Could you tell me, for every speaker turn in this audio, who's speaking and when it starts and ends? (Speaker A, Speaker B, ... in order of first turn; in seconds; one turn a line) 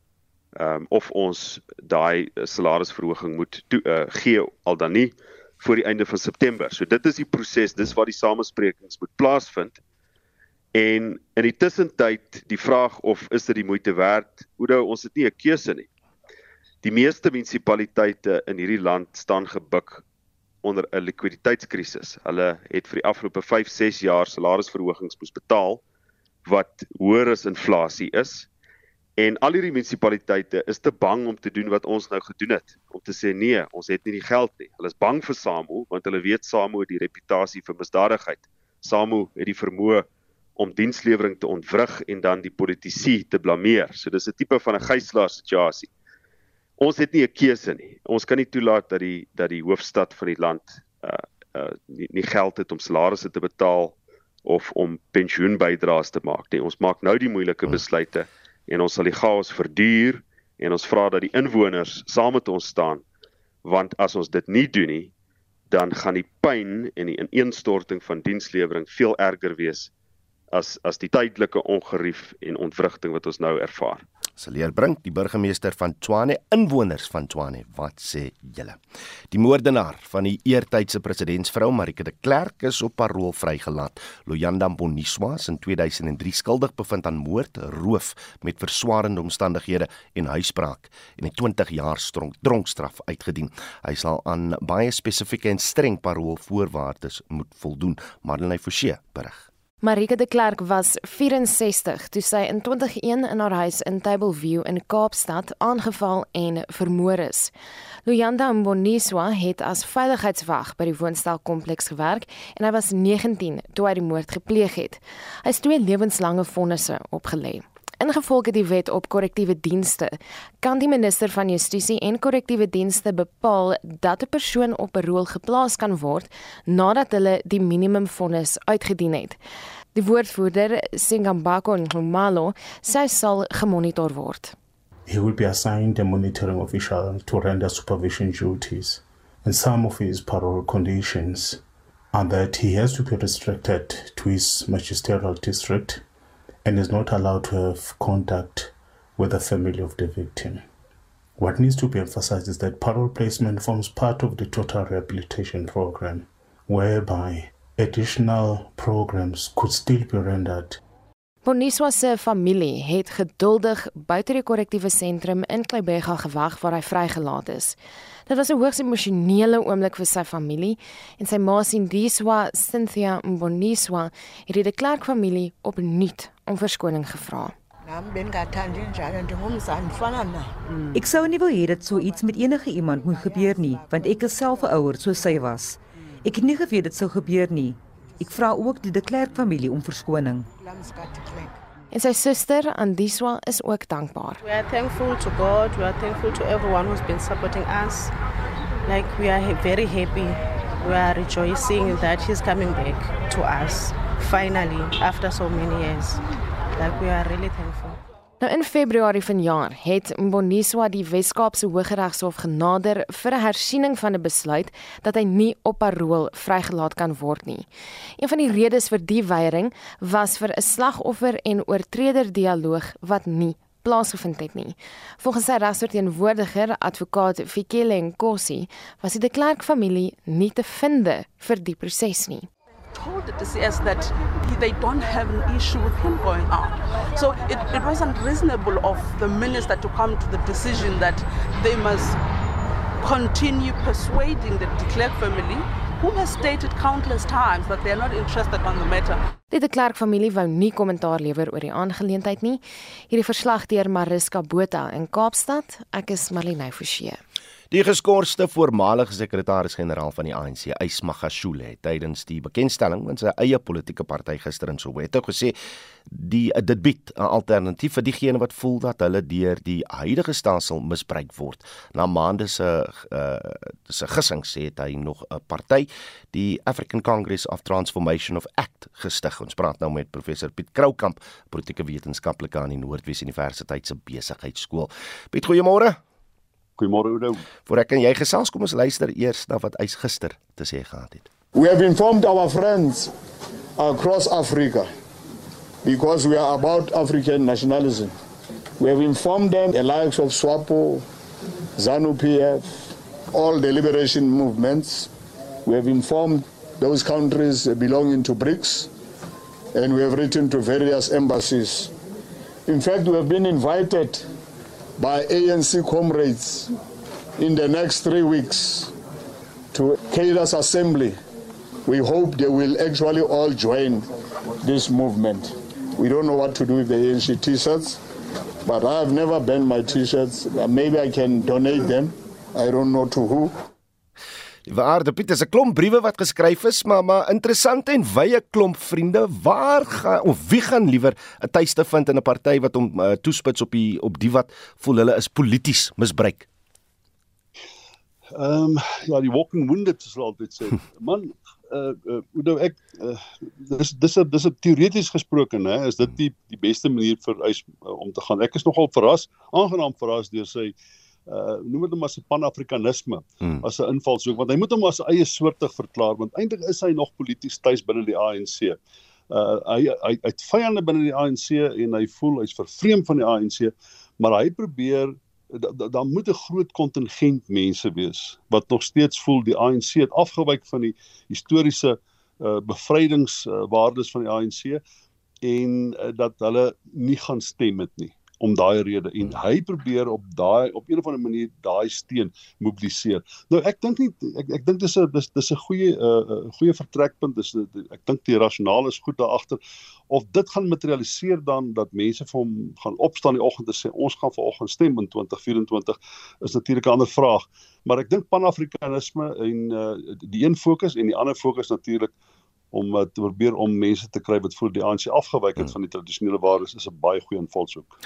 Speaker A: 0.5-9.8
Speaker A: 10.7-15.9
Speaker A: 16.8-20.0
Speaker A: 20.6-25.8
Speaker A: 26.4-28.5
Speaker A: 29.2-40.0
Speaker A: 40.6-45.9
Speaker A: 46.8-63.0
Speaker A: 63.6-65.1
Speaker A: 65.7-69.9
Speaker A: 70.5-74.0
Speaker B: 74.4-78.8
Speaker B: 79.3-99.5
Speaker C: 99.8-107.5
Speaker C: 108.0-129.4
Speaker C: 129.9-134.5
Speaker D: 135.1-141.6
Speaker D: 142.1-146.0
Speaker D: 146.6-150.6
Speaker D: 151.4-160.8
Speaker C: 161.4-167.8
Speaker C: 168.3-177.5
Speaker E: 177.8-191.6
Speaker C: 191.9-194.4
Speaker F: 194.4-198.1
Speaker F: 198.8-206.2
Speaker F: 206.7-208.0
Speaker C: 208.4-217.7
Speaker C: 218.2-232.5
Speaker G: 232.9-242.2
Speaker G: 243.0-249.2
Speaker C: 249.5-257.2
Speaker B: 257.7-265.6
Speaker B: 266.1-286.0
Speaker H: 286.8-287.4
Speaker B: 287.6-291.3
Speaker I: 291.5-293.1
Speaker I: 293.8-294.9
Speaker I: 295.8-298.1
Speaker I: 298.8-301.1
Speaker I: 301.8-305.1
Speaker I: 305.6-308.9
Speaker I: 309.7-311.9
Speaker I: 312.6-314.3
Speaker I: 315.0-316.7
Speaker I: 317.4-318.9
Speaker I: 319.7-321.2
Speaker I: 321.8-324.1
Speaker I: 324.6-328.0
Speaker I: 328.6-333.5
Speaker B: 334.6-346.5
Speaker H: 348.4-360.7
Speaker H: 361.3-368.8
Speaker H: 369.3-384.8
Speaker H: 385.4-412.1
Speaker H: 412.7-417.9